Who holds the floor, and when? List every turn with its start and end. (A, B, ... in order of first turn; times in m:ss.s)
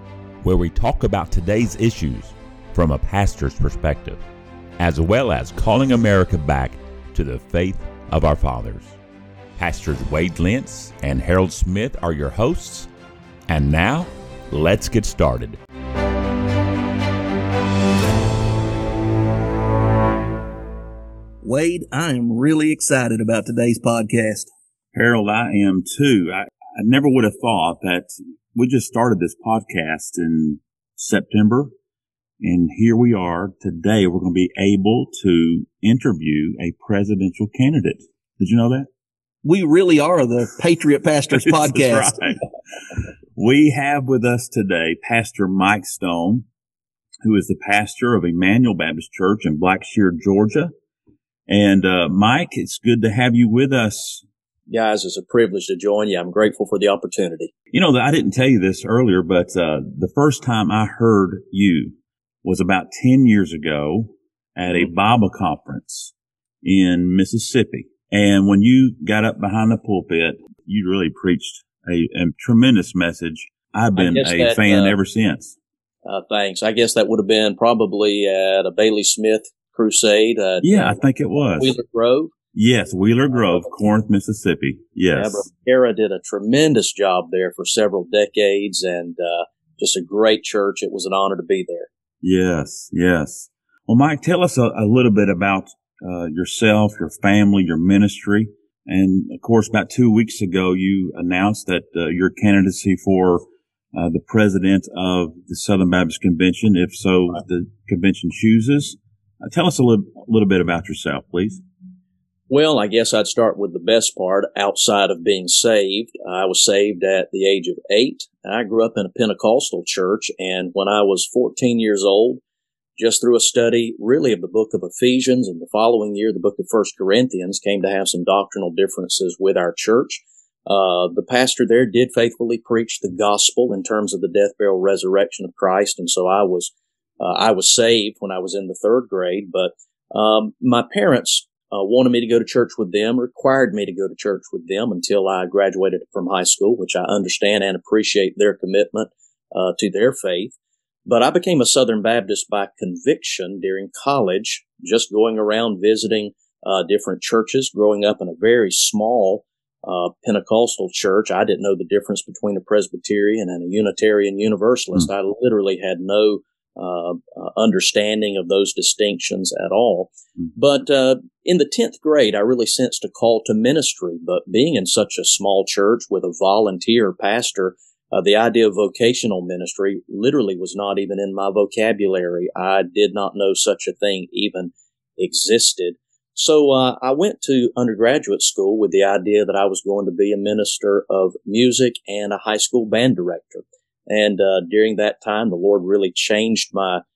0:00.4-0:04.2 A
0:04.8-0:09.0 A
0:09.6-0:12.9 A
0:13.5-0:15.6 A
0:21.4-0:24.5 B
0:24.9-0:31.7 C
0:32.4-0:38.9 C
0:39.4-0:42.2 B
0:41.3-0:46.4 C
0:47.2-0:50.7 C
0:51.5-0:54.2 C
0:54.7-0:57.5 D
0:57.7-1:06.1 C
1:06.6-1:15.6 C
1:14.0-1:15.0 D
1:16.0-1:21.0 D
1:20.6-1:21.7 C
1:21.6-1:22.3 D
1:22.5-1:25.4 C
1:25.1-1:31.9 D
1:32.2-1:51.6 C
1:52.5-2:02.4 D
2:03.0-2:30.5 D
2:31.0-3:17.0 D